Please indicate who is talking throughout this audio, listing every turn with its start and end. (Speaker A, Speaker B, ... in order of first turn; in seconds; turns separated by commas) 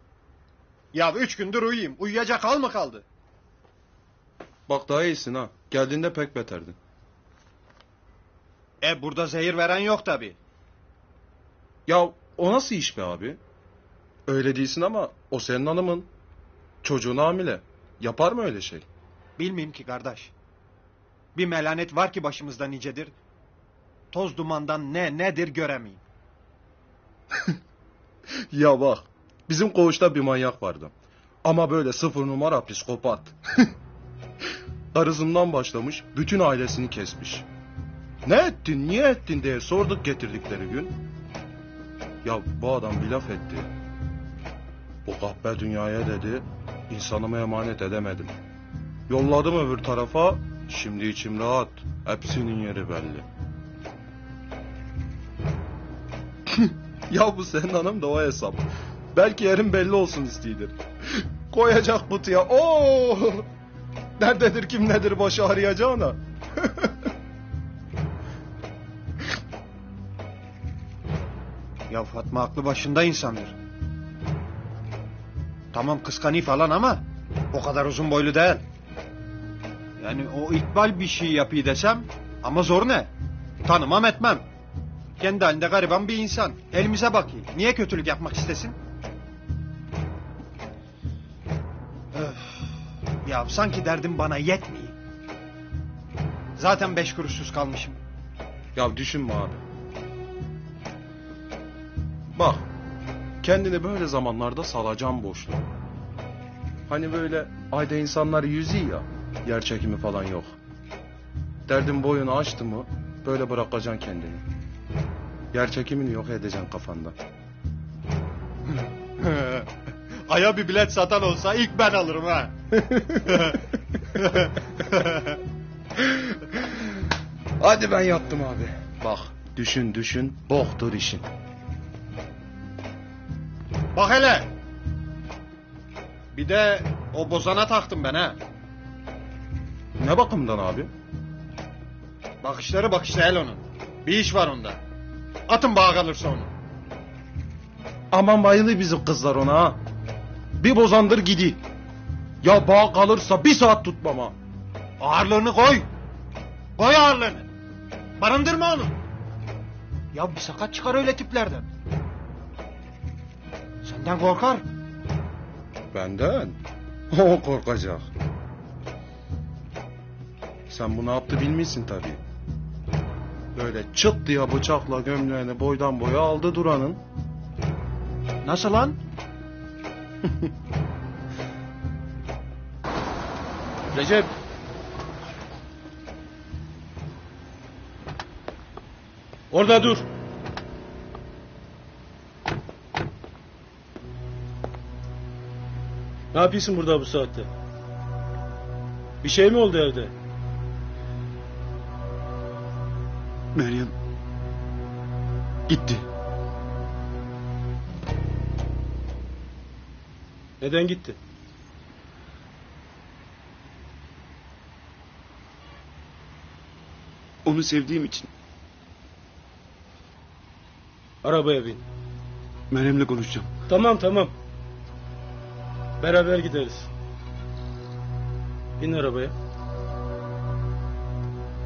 Speaker A: 0.9-3.0, Speaker B: 4.7-6.8, Speaker A: 8.8-10.3, Speaker B: 11.9-13.4, Speaker B: 14.3-16.1, Speaker B: 16.8-18.9, Speaker A: 19.4-20.3, Speaker A: 21.3-23.1, Speaker A: 24.1-26.0, Speaker B: 28.5-30.9, Speaker B: 31.4-33.6, Speaker B: 34.9-37.5, Speaker B: 38.2-40.9, Speaker B: 42.2-43.7, Speaker B: 45.0-48.3, Speaker B: 49.1-53.2, Speaker B: 56.6-63.5, Speaker B: 64.2-66.9, Speaker A: 71.9-73.5, Speaker A: 75.7-78.6, Speaker A: 80.0-83.1, Speaker A: 83.6-84.4, Speaker A: 85.2-88.8, Speaker A: 92.1-94.9, Speaker A: 96.5-98.0, Speaker B: 98.7-99.6, Speaker B: 102.3-102.7, Speaker B: 103.4-105.6, Speaker B: 106.9-110.5, Speaker B: 111.7-114.4, Speaker B: 115.5-117.1, Speaker A: 118.7-119.7, Speaker A: 120.3-122.5, Speaker B: 122.8-123.2, Speaker A: 123.3-123.6, Speaker A: 124.2-125.3, Speaker B: 126.0-126.6, Speaker B: 127.6-131.2, Speaker A: 133.9-134.5, Speaker A: 136.3-138.4, Speaker B: 140.0-140.9, Speaker A: 142.4-144.8, Speaker A: 145.5-146.5, Speaker B: 148.1-149.8, Speaker B: 150.6-151.6, Speaker B: 152.4-154.3, Speaker A: 155.0-155.9, Speaker A: 156.8-157.5, Speaker A: 158.2-158.9, Speaker A: 160.1-161.7, Speaker A: 163.8-164.6, Speaker B: 165.9-166.6, Speaker B: 167.1-168.1, Speaker B: 170.7-172.2, Speaker B: 173.5-177.0, Speaker A: 178.4-179.0, Speaker C: 183.9-184.3, Speaker C: 189.5-190.0, Speaker C: 196.3-197.5, Speaker C: 199.2-200.1, Speaker D: 203.6-203.9, Speaker D: 205.7-206.0, Speaker C: 210.6-211.2, Speaker D: 217.4-218.3, Speaker C: 221.2-221.8, Speaker D: 222.7-223.5, Speaker C: 223.7-224.3, Speaker C: 226.0-226.9, Speaker C: 228.8-229.3